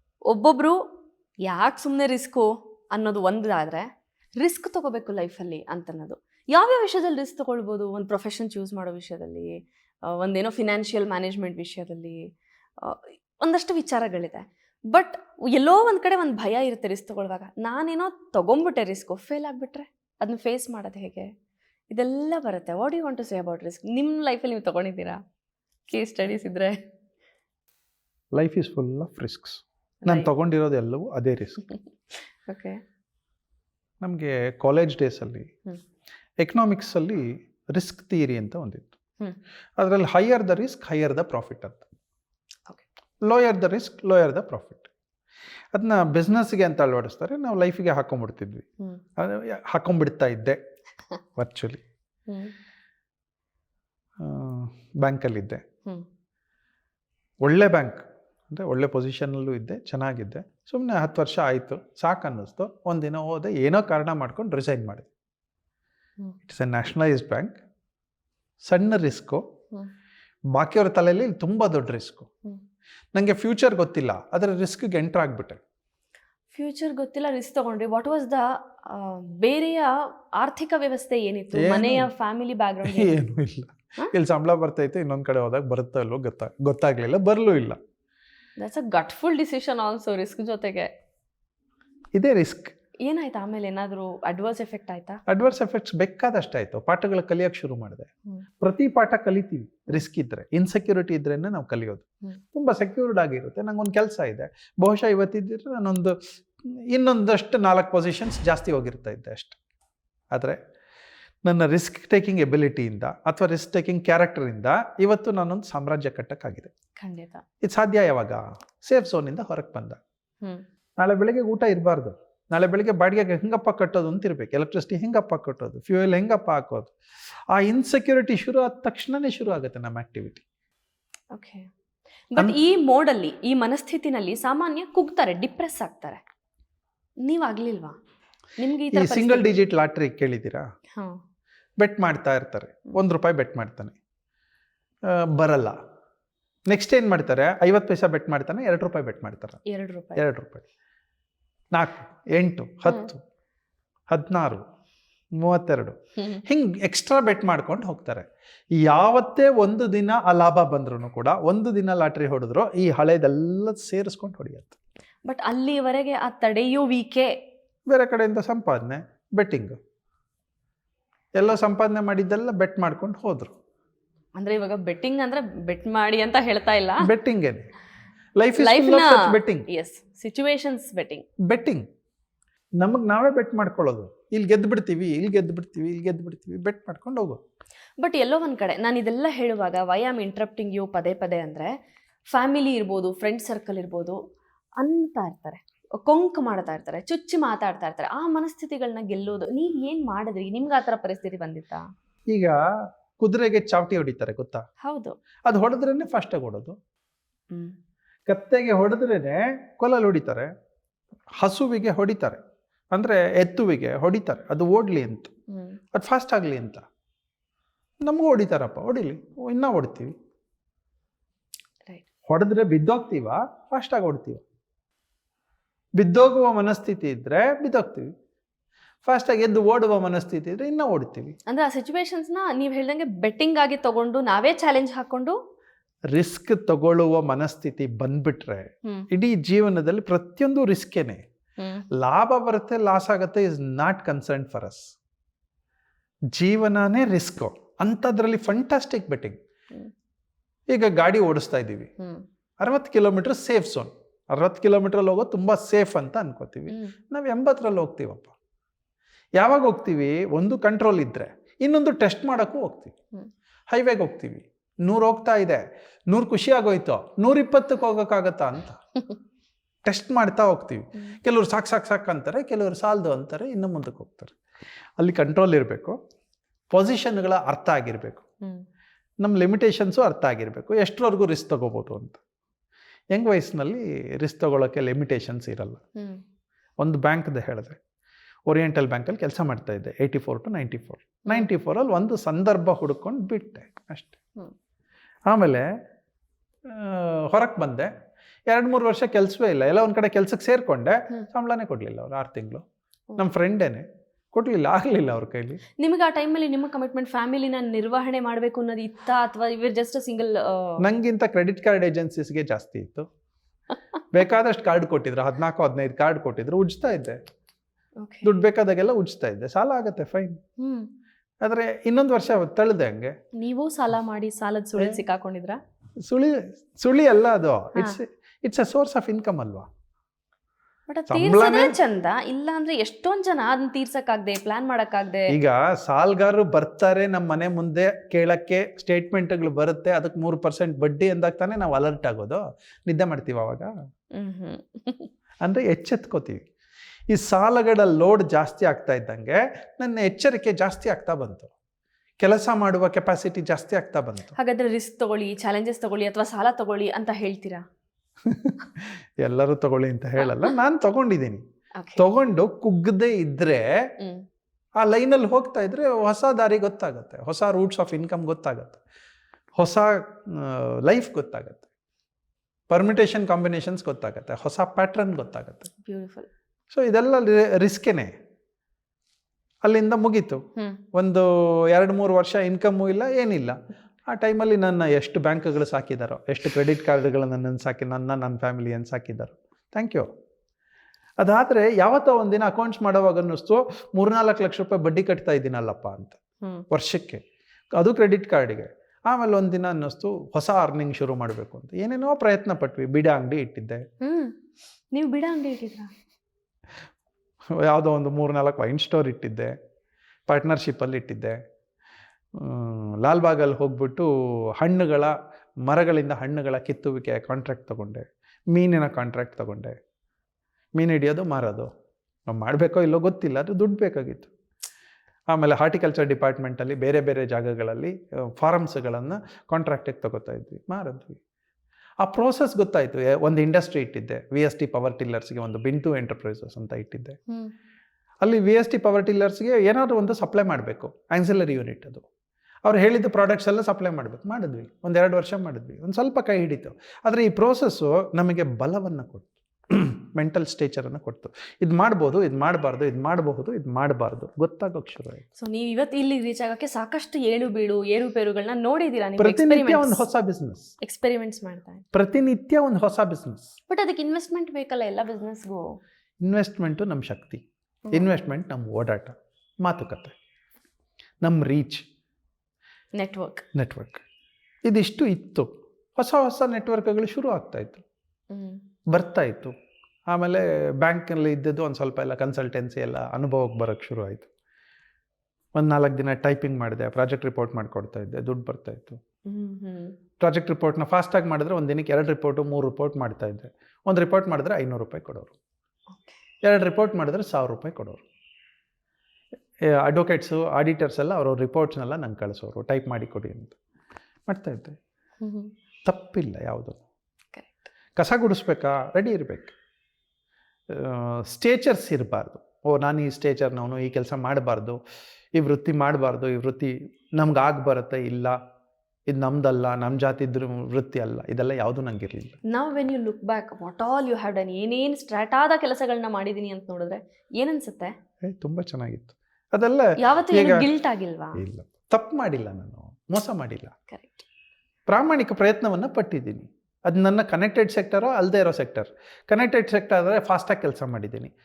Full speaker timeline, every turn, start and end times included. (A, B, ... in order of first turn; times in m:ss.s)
0:00.3-0:00.8 A
0:01.4-0:03.9 A
0:04.4-0:12.3 A
0:12.8-0:21.3 A
0:21.9-0:25.2 A
0:25.9-0:26.8 A
0:28.3-0:31.7 B
0:32.5-0:32.8 A
0:34.0-0:35.5 B
0:36.4-0:38.9 B
0:39.8-0:41.8 B
0:43.2-0:44.9 B
0:45.7-0:48.7 B
0:49.2-0:50.6 B
0:51.4-0:51.8 B
0:54.2-0:55.6 B
0:57.4-1:05.1 B
1:06.4-1:07.6 B
1:08.6-1:09.4 B
1:10.5-1:12.3 B
1:13.1-1:15.6 B
1:16.5-1:23.2 A
1:21.5-1:22.1 B
1:22.9-1:27.8 B
1:28.6-1:30.9 A
1:32.2-1:32.7 B
1:33.0-1:35.2 A
1:35.3-1:38.1 B
1:38.6-1:49.6 B
1:50.3-1:50.6 B
1:51.4-1:56.7 B
1:57.0-1:57.4 A
1:57.6-2:00.0 B
2:01.0-2:06.9 B
2:07.5-2:10.4 B
2:11.3-2:11.7 A
2:12.3-2:16.2 A
2:17.2-2:18.0 A
2:18.6-2:19.5 A
2:18.9-2:20.6 B
2:21.0-2:21.2 A
2:21.8-2:24.0 B
2:25.1-2:25.8 B
2:26.7-2:29.6 B
2:29.7-2:30.2 A
2:30.2-2:30.7 B
2:31.7-2:33.2 B
2:34.1-2:34.6 B
2:35.4-2:38.3 B
2:36.2-2:36.4 A
2:38.8-2:44.8 B
2:45.2-2:47.4 A
2:47.9-2:49.8 B
2:51.4-2:53.5 B
2:54.4-2:57.1 A
2:57.0-2:57.7 B
2:58.4-2:59.7 B
2:58.6-3:01.2 A
3:01.5-3:01.9 B
3:02.8-3:07.4 B
3:08.0-3:11.7 A
3:12.3-3:14.2 A
3:14.8-3:21.8 A
3:22.3-3:22.6 B
3:23.2-3:24.6 B
3:24.8-3:25.2 A
3:25.5-3:26.8 B
3:27.5-3:27.8 A
3:28.3-3:30.5 B
3:31.4-3:32.4 B
3:32.9-3:35.3 B
3:35.5-3:35.8 A
3:35.9-3:36.8 B
3:38.0-3:40.1 B
3:42.3-3:44.4 B
3:46.0-3:48.1 B
3:49.0-3:51.4 B
3:51.5-3:55.4 A
3:56.1-4:01.2 B
4:01.6-4:01.9 A
4:01.9-4:04.9 B
4:06.3-4:09.4 B
4:10.7-4:11.9 B
4:12.0-4:12.2 A
4:12.6-4:18.3 B
4:19.4-4:22.9 B
4:23.7-4:28.8 B
4:29.8-4:34.4 B
4:35.0-4:36.0 B
4:36.7-4:38.3 B
4:39.2-4:42.2 B
4:43.1-4:45.8 B
4:46.0-4:46.2 A
4:46.8-4:47.8 B
4:48.5-4:54.1 B
4:55.3-4:55.7 B
4:56.7-4:57.9 B
4:58.5-5:02.6 B
5:03.2-5:05.6 B
5:05.8-5:10.8 A
5:10.8-5:13.1 B
5:14.1-5:17.2 B
5:18.0-5:18.3 A
5:18.2-5:20.4 B
5:20.6-5:20.9 A
5:21.4-5:23.1 B
5:23.4-5:25.6 A
5:26.0-5:29.7 B
5:30.9-5:35.4 A
5:31.1-5:31.8 B
5:35.3-5:43.7 B
5:44.2-5:45.1 A
5:45.4-5:46.4 B
5:47.1-5:51.5 B
5:52.2-5:54.4 B
5:54.4-5:57.6 A
5:58.2-6:01.4 B
6:00.2-6:00.5 A
6:01.8-6:02.0 A
6:02.0-6:03.9 B
6:04.8-6:08.8 B
6:09.6-6:11.6 B
6:12.7-6:15.7 B
6:15.8-6:16.3 A
6:16.7-6:18.1 B
6:19.6-6:20.4 B
6:20.9-6:30.1 B
6:31.2-6:36.2 B
6:36.7-6:37.2 B
6:37.8-6:43.8 B
6:44.0-6:44.4 A
6:44.9-6:45.9 A
6:47.5-6:49.6 B
6:50.3-6:51.4 B
6:52.3-6:59.8 B
7:00.8-7:01.7 B
7:02.3-7:04.3 B
7:05.3-7:11.2 B
7:12.0-7:17.2 B
7:18.2-7:22.0 B
7:22.6-7:35.2 B
7:35.4-7:40.0 A
7:39.2-7:40.7 B
7:40.8-7:41.8 A
7:41.9-7:43.5 B
7:43.7-7:45.8 A
7:46.2-7:50.1 B
7:51.2-7:51.8 B
7:53.0-7:53.4 A
7:53.6-7:54.0 B
7:54.7-7:57.8 B
7:58.3-7:58.6 A
7:58.9-7:59.5 B
8:00.1-8:04.3 B
8:05.6-8:09.0 B
8:09.2-8:10.0 A
8:10.2-8:15.3 B
8:16.4-8:18.0 B
8:19.7-8:23.6 B
8:24.3-8:24.8 B
8:25.2-8:25.5 A
8:25.8-8:26.8 B
8:27.3-8:27.6 A
8:28.0-8:29.5 B
8:30.7-8:34.8 B
8:35.4-8:38.4 B
8:39.1-8:42.4 B
8:42.5-8:47.9 A
8:48.2-8:50.7 B
8:50.0-8:51.4 A
8:51.4-8:53.8 B
8:53.9-8:54.2 A
8:54.9-9:01.3 B